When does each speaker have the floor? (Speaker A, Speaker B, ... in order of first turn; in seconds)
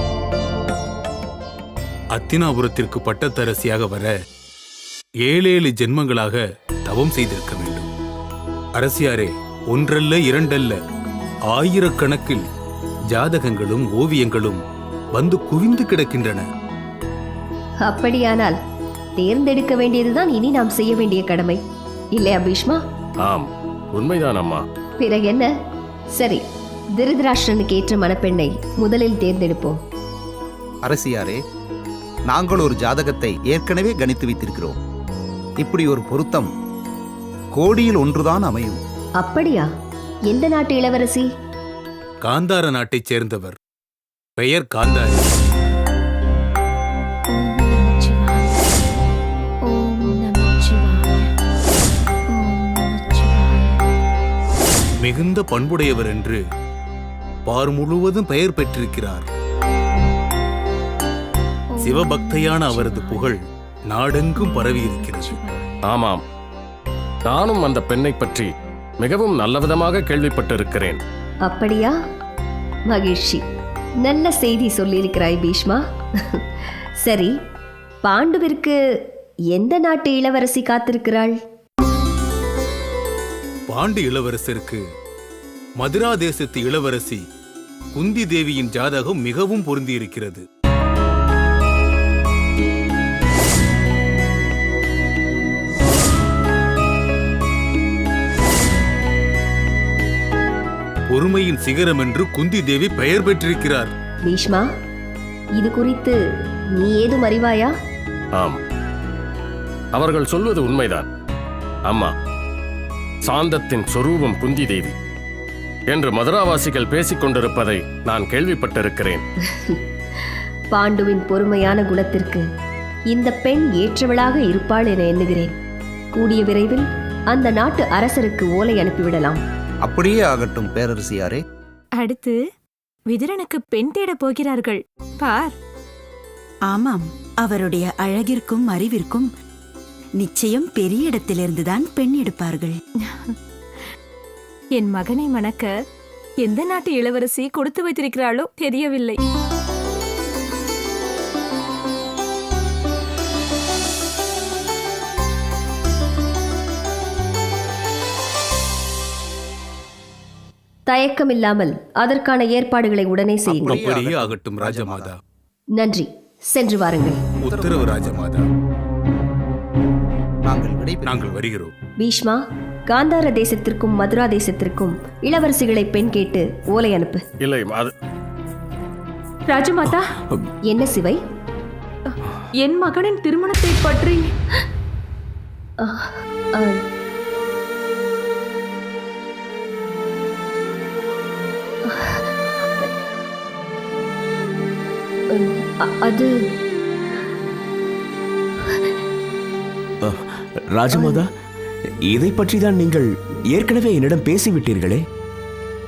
Speaker A: 2.1-4.1, 5.2-7.9, 8.8-10.8, 11.5-12.4, 13.1-14.6, 15.1-16.4, 42.2-43.5, 44.4-45.3, 55.0-56.4, 57.5-59.2, 61.8-63.4, 63.9-65.4, 83.7-84.8, 85.8-87.2, 87.9-90.4, 101.1-103.9, 163.5-165.1, 167.4-168.4, 171.1-171.7
Speaker B: 17.8-18.6, 19.2-21.6, 22.1-22.8, 25.0-25.5, 26.2-26.4, 27.0-29.8, 39.2-39.7, 40.3-41.3, 71.5-71.9, 72.9-73.4, 74.0-76.4, 77.0-77.3, 78.0-79.0, 79.5-81.4, 104.2-104.7, 105.6-106.2, 106.7-107.7, 119.5-122.4, 123.1-125.5, 126.1-129.4, 160.9-163.8, 165.8-167.2, 172.0-177.2, 180.7-181.2, 185.8-186.8, 191.8-192.2, 195.3-196.3
Speaker C: 23.2-24.6, 65.9-66.2, 67.2-68.5, 69.0-71.0, 109.9-111.1, 113.3-114.9, 115.9-119.2, 177.4-177.9
Speaker D: 30.9-31.4, 32.3-34.8, 35.6-36.5, 37.5-38.8, 129.8-131.4, 163.6-165.1, 167.4-168.2, 170.4-171.2
Speaker E: 47.3-48.6, 49.6-51.3, 52.3-53.8, 61.7-63.4, 64.3-65.6, 136.7-139.3, 140.2-142.7
Speaker F: 132.0-132.4, 133.1-135.5, 143.0-143.3, 144.8-145.7, 146.4-149.2, 179.5-180.1, 182.6-184.3
Speaker G: 200.0-201.3, 202.1-205.0